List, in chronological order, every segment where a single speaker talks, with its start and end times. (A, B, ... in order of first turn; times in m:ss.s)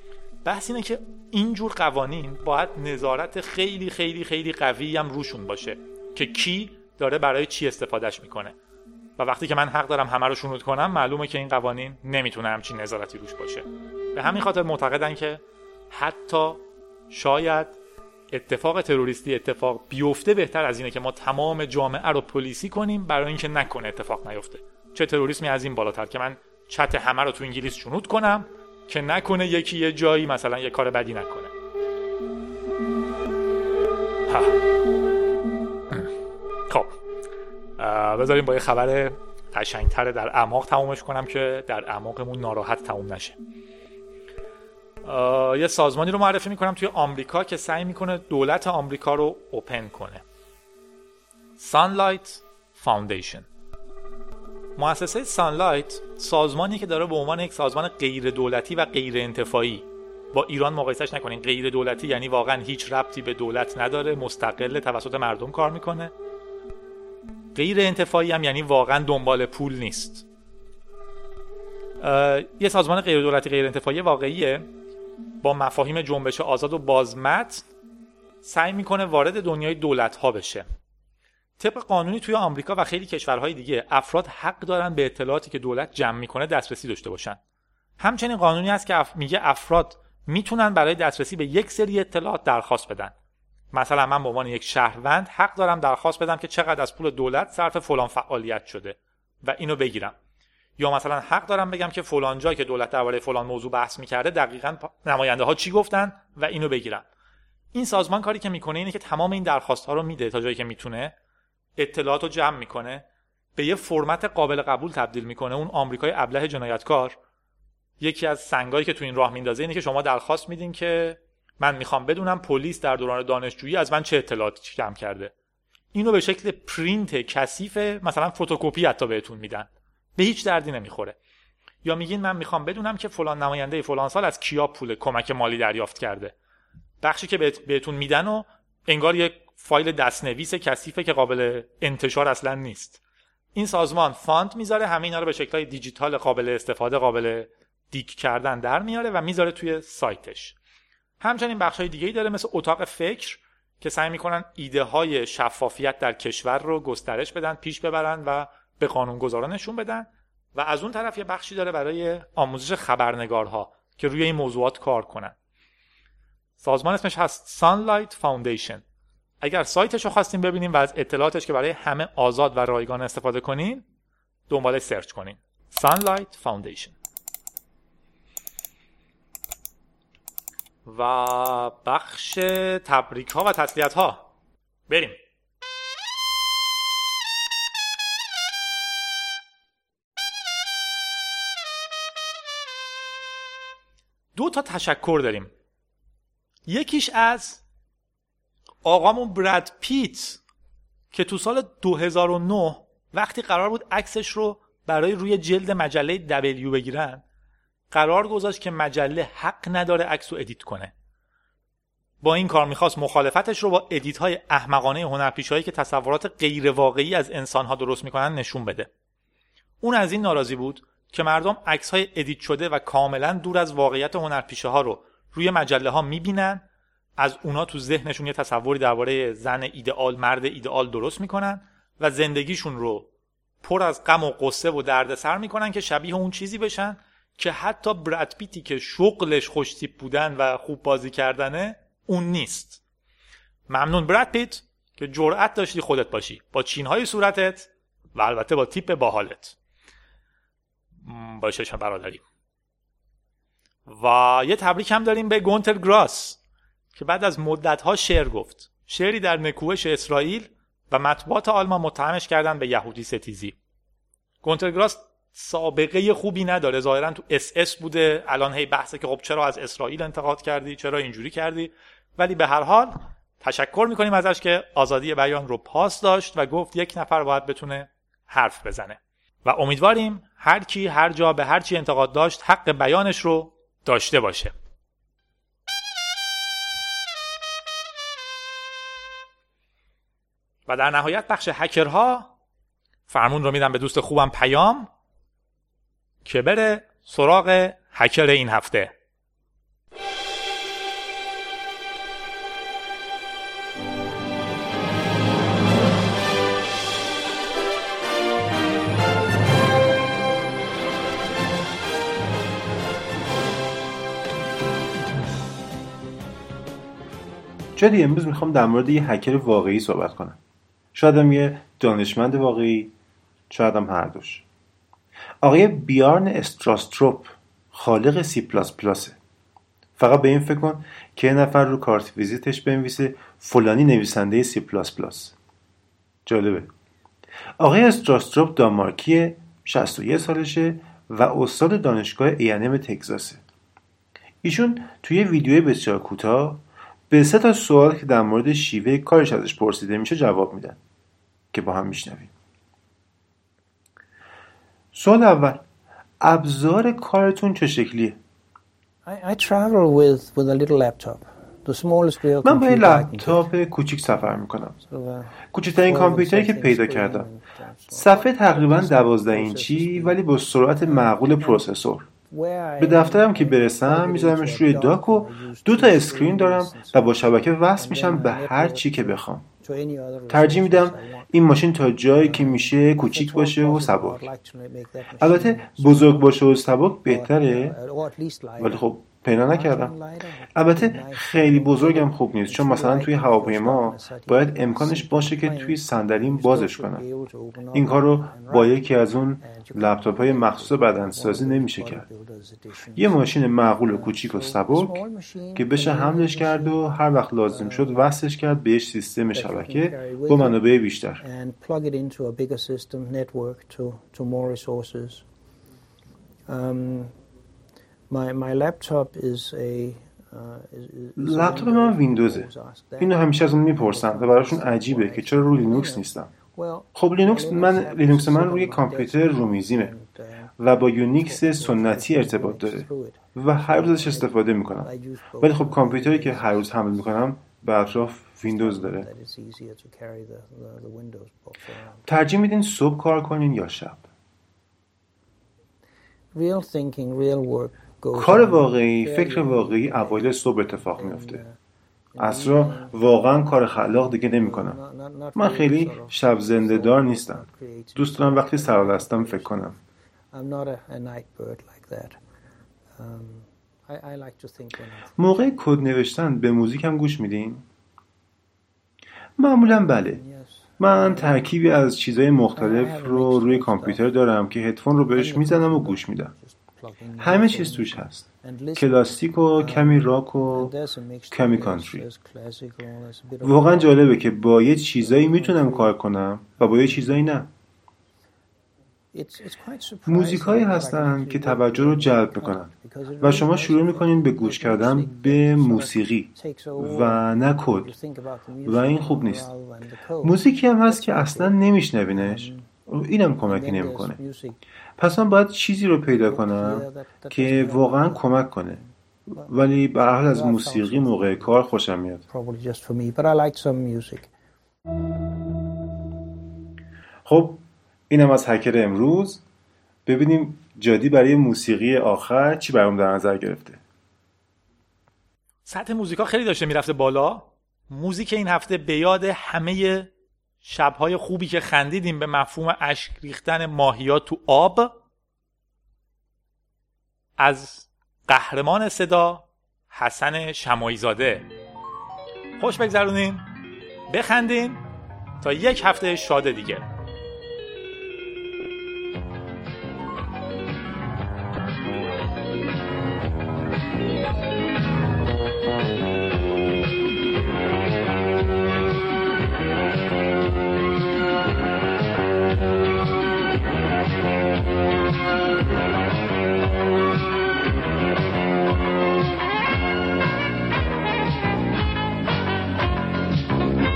0:00.4-0:08.6 A
0:09.2-0:17.8 A
0:18.3-0:31.5 A
0:34.3-0:34.6 A
0:36.7-0:36.9 A
0:37.8-0:43.4 A
0:45.0-0:50.2 A
0:51.6-0:53.5 A
0:54.8-1:06.1 A
1:07.6-1:10.3 A
1:12.0-1:14.7 A
1:15.4-1:17.7 A
1:18.4-1:20.7 A
1:21.6-1:27.4 A
1:28.0-1:33.1 A
1:33.7-1:40.2 A
1:40.8-1:47.1 A
1:47.7-1:51.2 A
1:51.8-1:53.0 A
1:53.6-1:57.2 A
1:58.0-2:05.3 A
2:05.9-2:11.2 A
2:11.8-2:16.3 A
2:17.0-2:23.0 A
2:23.5-2:30.6 A
2:31.2-2:45.4 A
2:46.6-2:48.8 A
2:49.4-2:53.8 A
2:54.5-2:56.9 A
3:00.8-3:04.3 A
3:04.9-3:05.2 A
3:14.4-3:15.5 A
3:16.7-3:17.6 A
3:18.8-3:20.4 A
3:21.1-3:27.2 A
3:27.9-3:30.9 A
3:32.2-3:38.9 A
3:39.8-3:46.6 A
3:47.2-3:53.1 A
3:53.6-4:02.8 A
4:03.7-4:09.6 A
4:11.0-4:12.2 A
4:13.9-4:16.4 A
4:17.0-4:23.6 A
4:24.4-4:44.5 A
4:50.7-4:52.3 A
4:53.1-4:54.9 A
4:56.2-4:58.9 A
5:17.8-5:20.4 B
5:20.9-5:22.9 B
5:23.5-5:24.4 B
5:25.4-5:29.2 B
5:30.0-5:35.4 B
5:36.3-5:36.7 B
5:37.6-5:43.4 B
5:44.4-5:50.8 B
5:51.5-5:52.3 B
5:54.9-5:55.6 B
5:56.2-5:58.2 B
5:59.0-6:03.4 C
6:02.4-6:04.8 B
6:04.8-6:10.2 C
6:05.5-6:07.3 B
6:07.9-6:12.1 B
6:10.9-6:11.7 C
6:12.2-6:21.3 C
6:12.8-6:19.4 B
6:20.3-6:24.2 B
6:22.1-6:26.5 C
6:25.2-6:27.8 B
6:27.0-6:28.8 C
6:28.6-6:29.9 B
6:29.5-6:43.2 C
6:30.5-6:37.0 B
6:37.7-6:42.0 B
6:43.0-6:45.0 B
6:43.9-6:46.8 C
6:45.6-6:51.2 B
6:47.5-6:48.1 C
6:49.3-6:50.6 C
6:51.2-6:55.2 C
6:56.5-6:57.1 C
6:58.1-7:10.6 C
7:01.2-7:02.5 B
7:03.0-7:06.3 B
7:07.0-7:09.9 B
7:10.6-7:19.1 B
7:11.1-7:16.7 C
7:18.4-7:22.1 C
7:22.1-7:24.0 B
7:26.3-7:31.6 C
7:28.1-7:31.4 B
7:32.1-7:33.0 C
7:32.2-7:34.8 B
7:34.0-7:39.8 C
7:35.4-7:37.4 B
7:38.0-7:39.8 B
7:40.3-7:42.2 C
7:43.0-7:45.5 C
7:45.2-7:47.6 B
7:49.4-7:50.2 B
7:49.6-7:51.5 C
7:50.8-7:56.3 B
7:52.6-7:54.1 C
7:55.1-8:04.1 C
7:57.2-7:58.2 B
7:58.8-8:00.7 B
8:01.3-8:02.0 B
8:03.4-8:07.5 B
8:05.0-8:06.0 C
8:06.6-8:07.2 C
8:09.1-8:21.6 C
8:10.1-8:17.9 B
8:18.6-8:19.5 B
8:20.2-8:24.2 B
8:22.1-8:22.7 C
8:23.4-8:24.6 C
8:25.0-8:28.8 B
8:26.3-8:29.5 C
8:29.4-8:32.2 B
8:30.1-8:31.6 C
8:32.3-8:34.3 C
8:37.3-8:39.4 B
8:40.1-8:43.8 B
8:45.6-8:50.1 A
8:50.6-8:54.9 A
8:57.4-9:01.5 A
9:02.6-9:03.5 A
9:04.1-9:04.8 A
9:05.4-9:06.8 A